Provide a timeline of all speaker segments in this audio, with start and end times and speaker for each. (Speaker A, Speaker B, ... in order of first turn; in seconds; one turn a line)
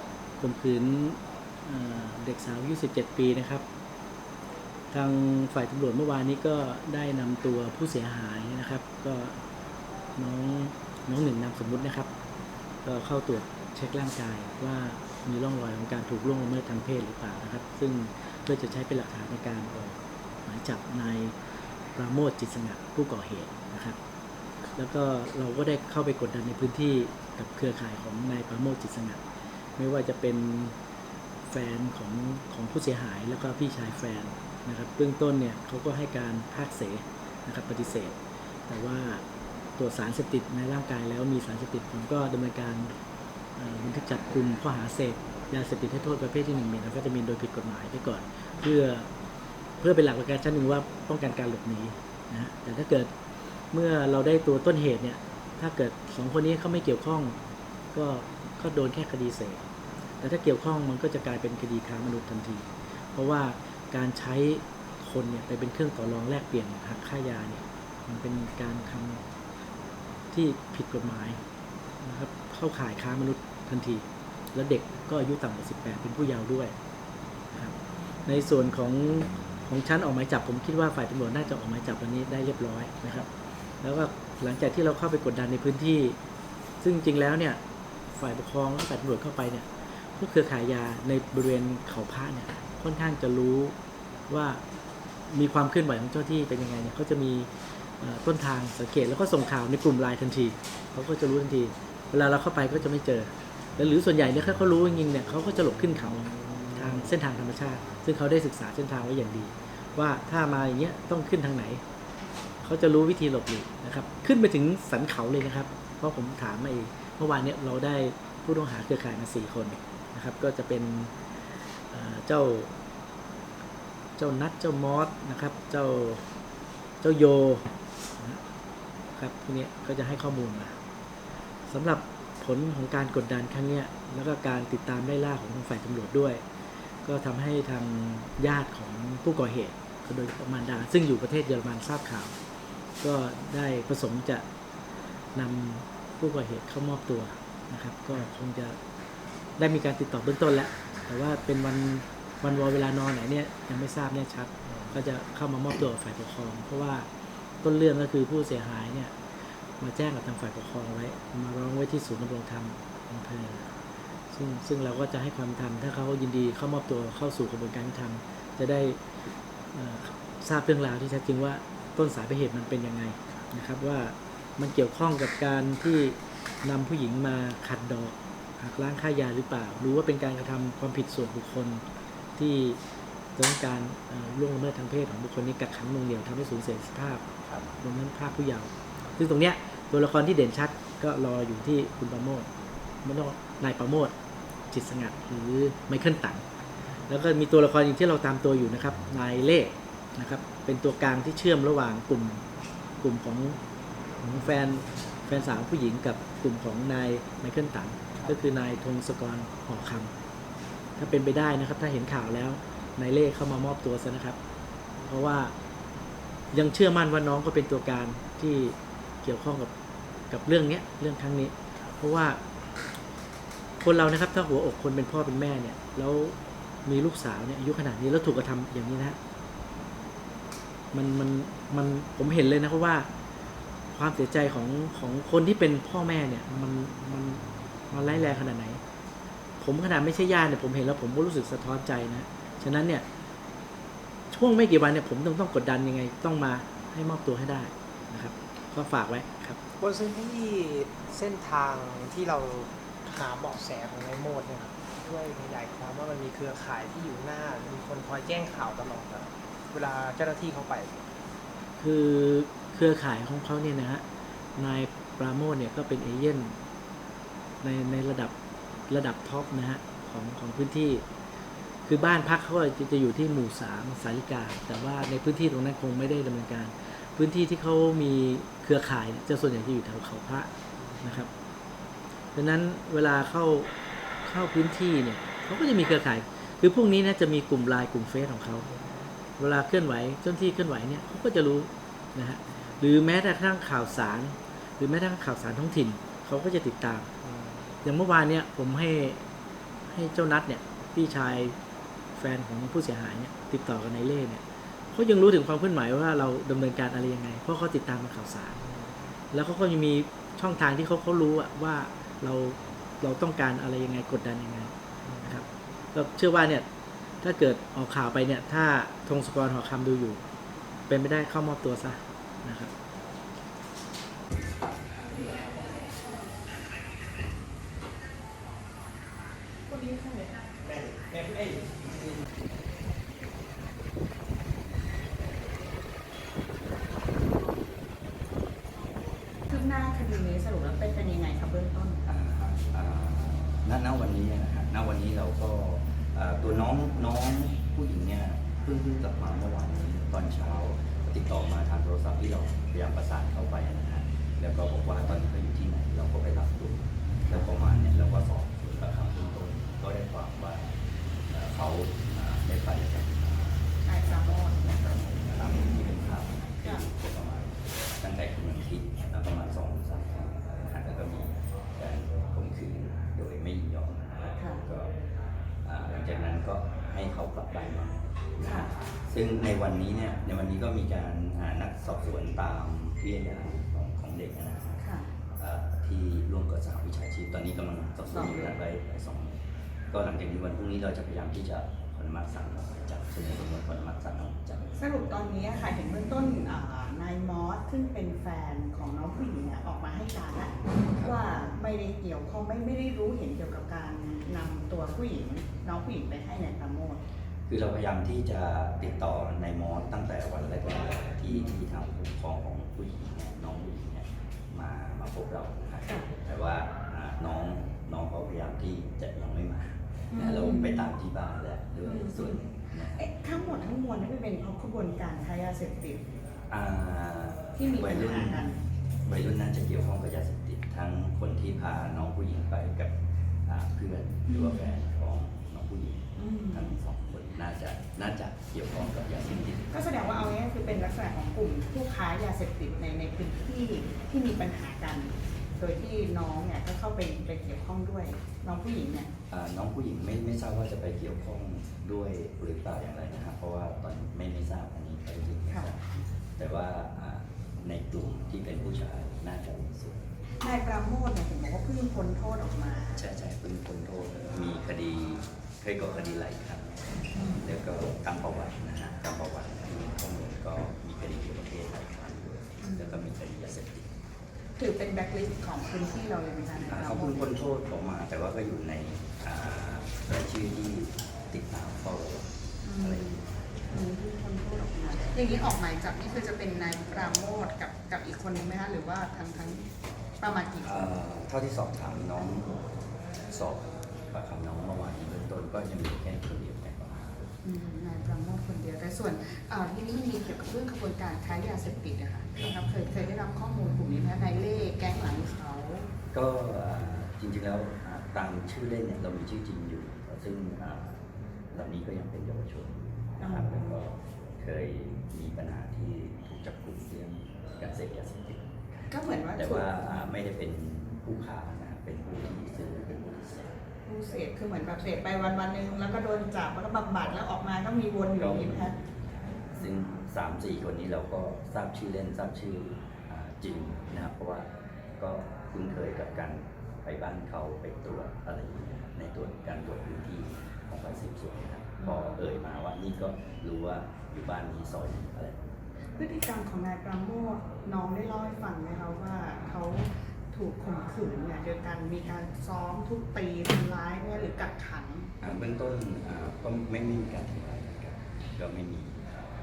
Speaker A: 0.4-3.6
Speaker A: 4.9-9.4
Speaker A: 10.2-12.1
Speaker A: 12.8-21.3
Speaker A: 21.9-24.0
Speaker A: 24.7-29.2
Speaker A: 29.8-30.7
Speaker A: 31.5-38.2
Speaker A: 38.7-39.2
Speaker A: 39.8-42.9
Speaker A: 43.5-49.1
Speaker A: 49.8-53.1
Speaker A: 53.7-57.4
Speaker A: 57.9-59.6
Speaker A: 60.2-69.2
Speaker A: 70.3-71.4
Speaker A: 72.0-76.7
Speaker A: 78.2-83.3
Speaker A: 83.8-86.2
Speaker A: 86.8-87.6
Speaker A: 88.1-93.7
Speaker A: 94.3-94.6
Speaker A: 95.3-111.8
Speaker A: 112.6-121.1
Speaker A: 121.9-122.7
Speaker A: 124.2-126.2
Speaker A: 127.0-128.4
Speaker A: 129.2-130.8
Speaker A: 131.7-136.4
Speaker A: 137.0-142.3
Speaker A: 143.0-144.4
Speaker A: 145.3-148.8
Speaker A: 149.6-157.1
Speaker A: 157.6-159.1
Speaker A: 159.8-163.7
Speaker A: 164.3-169.0
Speaker A: 169.7-181.8
Speaker A: 182.4-182.8
Speaker A: 183.3-187.2
Speaker B: 187.4-187.8
Speaker A: 187.8-192.5
Speaker A: 193.0-194.1
Speaker A: 194.7-196.4
Speaker A: 197.1-202.4
Speaker A: 203.0-203.6
Speaker A: 204.2-210.1
Speaker A: 211.0-214.4
Speaker A: 215.0-215.5
Speaker A: 216.5-219.7
Speaker A: 220.3-222.4
Speaker A: 223.8-229.2
Speaker A: 230.9-233.1
Speaker A: 233.9-238.8
Speaker A: 239.6-243.1
Speaker A: 244.3-249.6
Speaker C: 249.8-260.9
Speaker A: 261.8-264.0
Speaker A: 264.6-266.6
Speaker A: 267.6-268.3
Speaker A: 268.9-271.0
Speaker A: 271.8-280.5
Speaker A: 281.0-281.3
Speaker A: 282.3-283.7
Speaker A: 284.2-288.7
Speaker A: 289.4-297.1
Speaker C: 297.2-297.6
Speaker A: 297.8-299.2
Speaker A: 299.9-301.6
Speaker A: 302.1-308.6
Speaker A: 309.3-316.6
Speaker C: 315.0-315.3
Speaker A: 317.2-320.2
Speaker A: 320.9-322.7
Speaker C: 330.6-331.8
Speaker D: 339.5-342.0
Speaker B: 342.1-360.7
Speaker B: 361.3-374.9
Speaker D: 363.8-364.8
Speaker D: 374.4-374.6
Speaker B: 375.6-389.4
Speaker D: 384.8-385.1
Speaker D: 388.1-388.5
Speaker B: 389.9-394.8
Speaker D: 394.8-407.0
Speaker B: 407.5-423.1
Speaker D: 420.1-420.9
Speaker D: 421.8-422.4
Speaker D: 422.9-426.0
Speaker B: 426.5-428.5
Speaker D: 427.6-428.6
Speaker B: 429.0-440.3
Speaker D: 434.3-434.6
Speaker D: 436.2-436.8
Speaker D: 439.7-449.1
Speaker B: 449.3-460.1
Speaker D: 460.4-463.0
Speaker B: 462.9-473.9
Speaker D: 467.1-467.4
Speaker D: 472.6-473.0
Speaker D: 474.6-477.3
Speaker B: 476.6-483.2
Speaker D: 482.6-489.7
Speaker D: 490.2-490.9
Speaker B: 490.6-492.6
Speaker B: 493.2-497.3
Speaker D: 497.4-505.9
Speaker B: 506.1-523.6
Speaker D: 513.2-513.8
Speaker D: 518.9-519.9
Speaker D: 523.9-528.7
Speaker B: 528.1-528.9
Speaker B: 529.5-545.4
Speaker D: 541.8-542.1
Speaker D: 546.0-555.1
Speaker B: 555.2-559.1